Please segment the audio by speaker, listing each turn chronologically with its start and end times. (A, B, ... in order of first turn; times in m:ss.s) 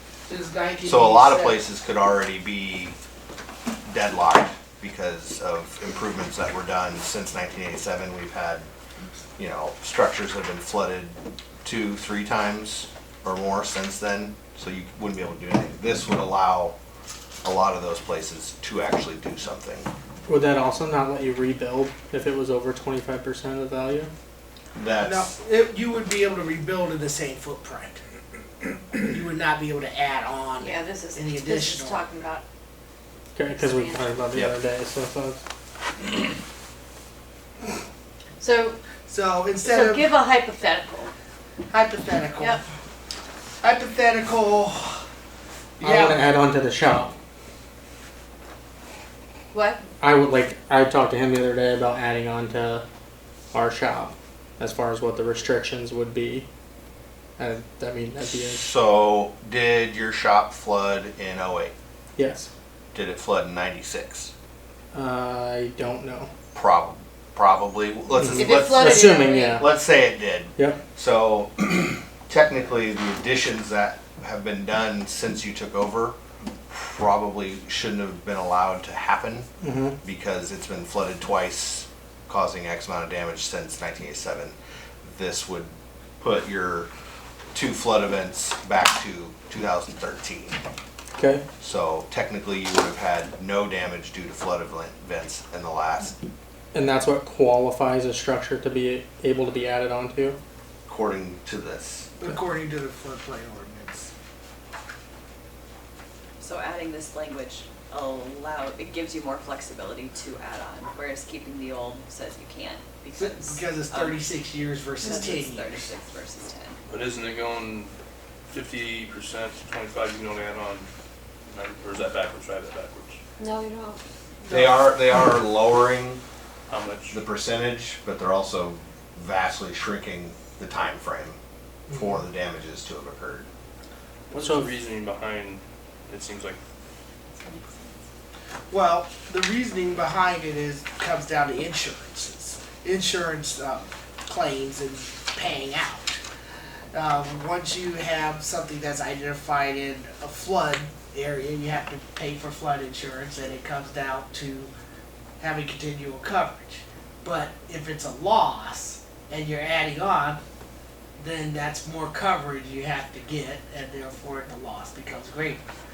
0:00.3-0:01.6 A
0:00.8-0:03.0 B
0:03.8-0:08.7 B
0:09.4-0:16.8 B
0:17.4-0:19.9 B
0:20.3-0:24.1 C
0:24.8-0:25.3 B
0:25.0-0:28.0 A
0:28.9-0:32.1 A
0:30.6-0:32.4 D
0:33.4-0:35.4 C
0:33.4-0:34.2 D
0:38.4-0:38.8 D
0:39.1-0:40.2 A
0:39.6-0:41.1 D
0:41.7-0:42.6 A
0:43.6-0:45.1 A
0:45.8-0:46.2 A
0:45.8-0:47.1 C
0:49.5-0:49.8 D
0:50.0-0:52.8 C
0:53.5-0:56.5 C
0:57.4-0:58.7 C
0:58.5-1:01.7 B
1:02.2-1:02.5 C
1:02.9-1:04.3 B
1:04.9-1:06.3 C
1:06.5-1:16.2 B
1:08.2-1:09.7 C
1:08.4-1:09.7 D
1:16.7-1:19.5 B
1:19.6-1:20.0 C
1:20.0-1:26.9 B
1:27.5-1:30.6 B
1:31.2-1:31.4 C
1:31.6-1:36.2 B
1:36.7-1:40.4 C
1:40.9-1:42.1 B
1:42.2-1:44.1 A
1:46.4-1:54.2 E
1:53.2-1:55.9 A
1:55.0-1:56.8 E
1:56.9-1:57.9 F
1:58.5-2:00.9 F
2:01.5-2:03.2 F
2:03.4-2:04.0 D
2:04.4-2:04.8 A
2:04.5-2:06.2 B
2:06.7-2:07.2 F
2:07.1-2:11.4 B
2:11.9-2:13.5 B
2:14.3-2:16.6 F
2:14.4-2:14.7 C
2:17.4-2:17.8 E
2:18.7-2:26.2 A
2:26.9-2:34.7 A
2:35.4-2:40.4 A
2:41.2-2:45.6 A